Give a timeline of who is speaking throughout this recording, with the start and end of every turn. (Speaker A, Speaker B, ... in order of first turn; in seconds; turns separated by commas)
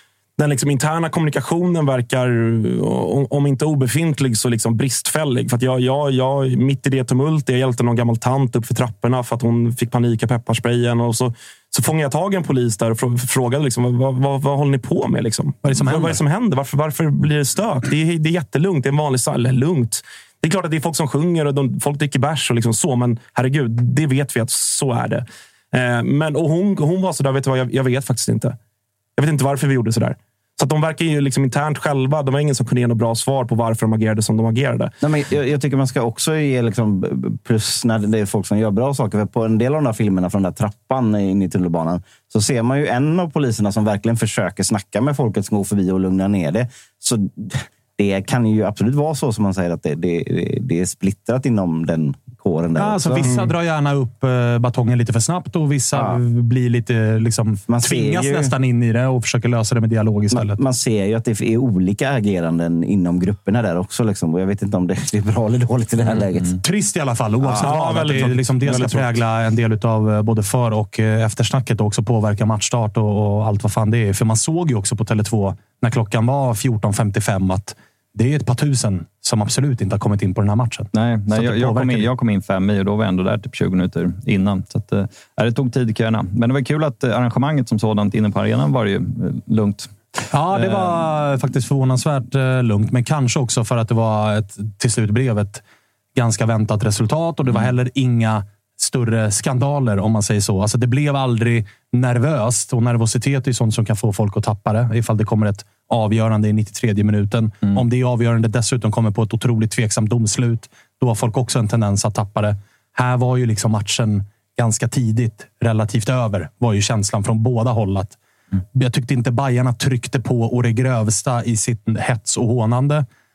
Speaker A: 0.4-28.6, Speaker B: 15.6-16.2, Speaker A: 29.2-34.9, Speaker C: 35.0-53.4, Speaker B: 52.8-60.6, Speaker C: 55.9-56.2, Speaker C: 57.7-58.5, Speaker C: 60.3-66.5, Speaker B: 66.6-82.1, Speaker C: 67.4-67.7, Speaker A: 67.6-69.1, Speaker D: 80.9-90.0, Speaker B: 90.3-95.6, Speaker D: 90.5-91.0, Speaker B: 96.1-118.2, Speaker B: 118.7-123.0